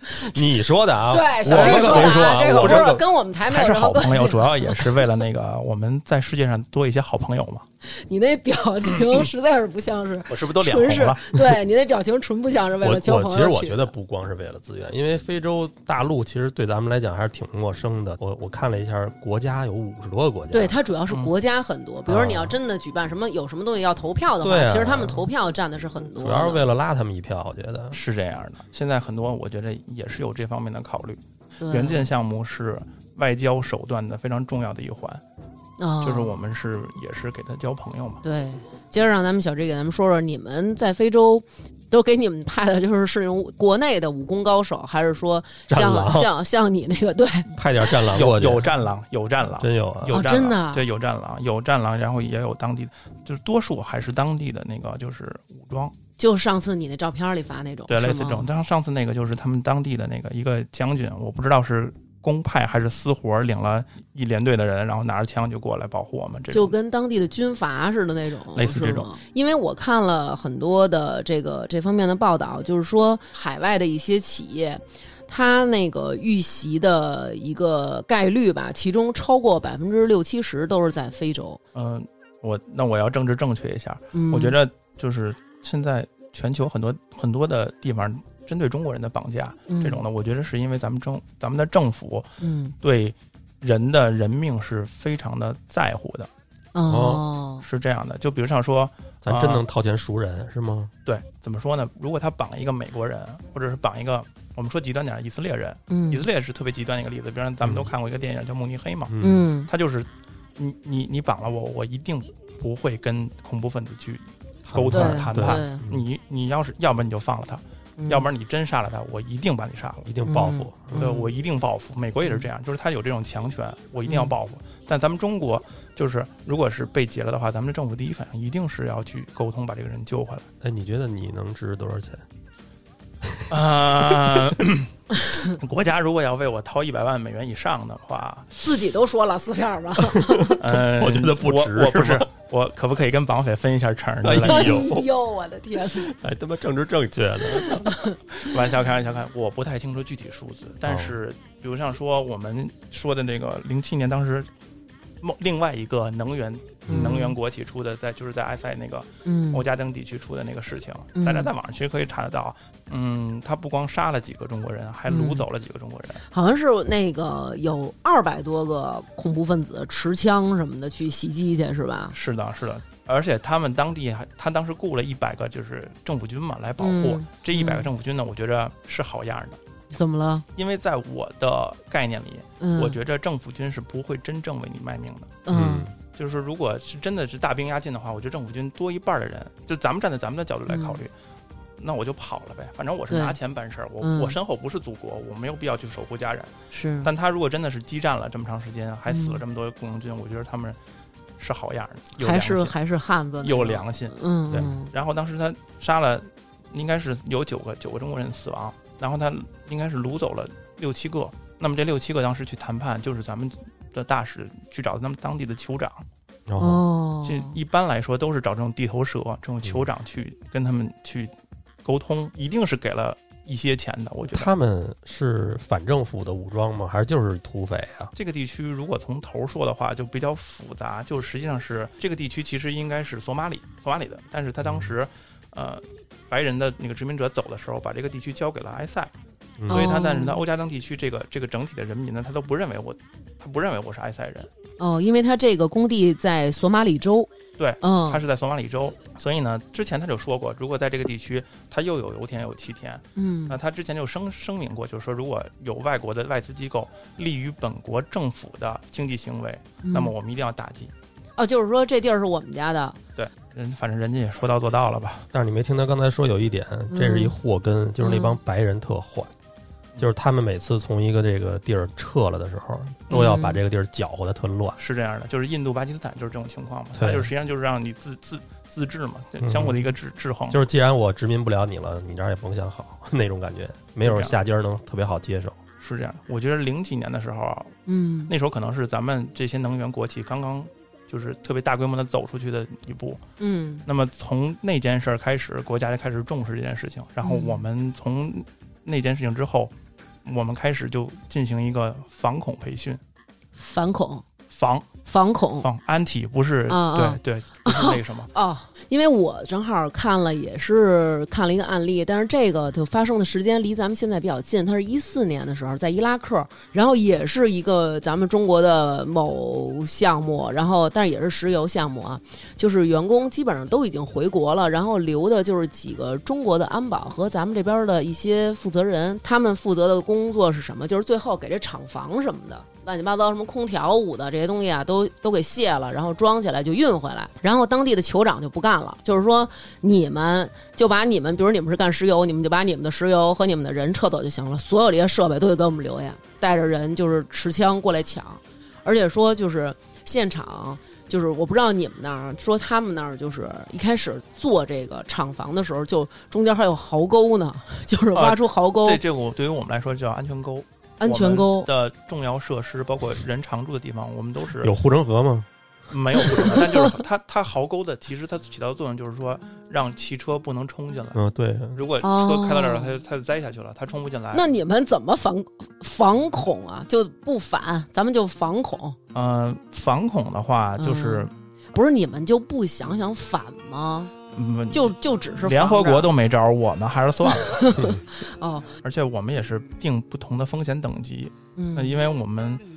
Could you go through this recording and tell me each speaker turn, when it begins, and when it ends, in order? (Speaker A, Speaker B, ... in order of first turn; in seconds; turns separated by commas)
Speaker A: 0.1-3.0, Speaker B: 1.1-5.0, Speaker C: 1.4-7.6, Speaker B: 7.8-13.9, Speaker C: 10.3-11.6, Speaker A: 12.8-20.7, Speaker B: 20.5-26.7, Speaker A: 22.1-22.6, Speaker A: 24.4-25.3, Speaker A: 26.2-28.0, Speaker C: 27.9-35.2, Speaker B: 31.6-32.1, Speaker B: 35.8-36.4, Speaker C: 36.0-38.2, Speaker B: 38.2-47.6, Speaker A: 45.7-46.3, Speaker A: 47.5-48.7, Speaker C: 48.0-55.9, Speaker A: 49.6-50.2, Speaker B: 50.1-50.9, Speaker B: 56.2-58.5, Speaker C: 57.9-66.7, Speaker B: 66.5-81.6, Speaker C: 68.5-69.1, Speaker C: 81.7-96.3, Speaker B: 84.1-84.5, Speaker B: 89.7-90.0, Speaker B: 92.4-92.7, Speaker B: 96.7-97.6, Speaker A: 96.9-97.2, Speaker C: 97.6-99.6, Speaker A: 99.2-100.9, Speaker C: 101.0-109.2, Speaker B: 105.9-106.2, Speaker A: 107.6-107.9, Speaker A: 109.1-109.5, Speaker B: 109.2-109.7, Speaker C: 109.7-120.1, Speaker A: 114.7-116.0, Speaker B: 114.9-115.8, Speaker B: 118.0-118.3, Speaker A: 120.0-121.1, Speaker B: 120.2-121.3, Speaker C: 120.9-130.5, Speaker A: 130.6-132.2, Speaker A: 133.2-133.5, Speaker C: 133.5-138.6, Speaker A: 134.1-134.6, Speaker B: 138.6-140.6, Speaker A: 140.1-142.3, Speaker C: 140.6-144.8, Speaker A: 144.2-145.1, Speaker B: 144.4-146.1, Speaker A: 145.9-147.9, Speaker B: 147.6-148.2, Speaker C: 148.3-154.5, Speaker A: 150.8-151.2, Speaker C: 155.2-166.2, Speaker A: 156.9-157.2, Speaker B: 156.9-157.3, Speaker B: 159.2-159.6, Speaker B: 161.2-161.5, Speaker B: 165.1-165.4, Speaker B: 166.3-172.1, Speaker C: 172.1-179.6, Speaker B: 176.8-177.9, Speaker B: 179.9-180.4, Speaker C: 180.6-185.4, Speaker B: 182.6-183.0, Speaker B: 185.4-185.9, Speaker A: 185.5-185.9, Speaker C: 186.1-191.1, Speaker B: 190.7-191.0, Speaker C: 191.8-200.8, Speaker B: 193.1-193.4, Speaker B: 194.0-194.3, Speaker B: 196.7-197.1, Speaker B: 199.1-199.4, Speaker C: 201.4-202.7, Speaker B: 202.2-204.9, Speaker C: 203.4-216.0, Speaker A: 216.5-216.8, Speaker B: 216.6-217.6, Speaker C: 217.2-221.3, Speaker C: 221.8-224.5, Speaker A: 224.3-228.1, Speaker C: 228.2-239.1, Speaker A: 234.6-234.9, Speaker A: 239.6-240.0, Speaker C: 239.7-244.5, Speaker B: 239.7-240.4, Speaker B: 244.8-248.2, Speaker C: 247.6-260.9, Speaker B: 253.2-253.6, Speaker B: 259.8-260.1, Speaker B: 261.4-263.0, Speaker C: 263.1-265.2, Speaker A: 265.3-269.3, Speaker B: 266.9-267.3, Speaker B: 268.0-268.4, Speaker A: 270.0-274.8, Speaker B: 273.1-273.6, Speaker C: 274.8-280.6, Speaker A: 276.9-277.3, Speaker A: 279.4-279.8, Speaker A: 280.5-285.6, Speaker C: 284.0-284.4, Speaker C: 285.8-287.8, Speaker B: 287.9-288.3, Speaker C: 288.3-293.2, Speaker B: 293.4-293.8, Speaker C: 293.9-299.7, Speaker B: 297.2-297.6, Speaker C: 300.2-303.0, Speaker B: 303.6-304.2, Speaker C: 304.5-304.9, Speaker B: 305.0-305.7, Speaker C: 305.6-308.3, Speaker B: 306.7-359.0, Speaker C: 358.1-364.7, Speaker B: 361.0-361.7, Speaker A: 364.6-365.5, Speaker C: 365.9-371.2, Speaker B: 366.2-366.9, Speaker A: 371.1-371.9, Speaker C: 371.7-374.4, Speaker B: 372.0-372.9, Speaker B: 374.3-379.0, Speaker C: 379.1-381.3, Speaker B: 380.8-384.1, Speaker C: 384.3-387.7, Speaker B: 384.7-386.1, Speaker B: 387.3-388.7, Speaker C: 388.8-392.6, Speaker B: 391.6-392.0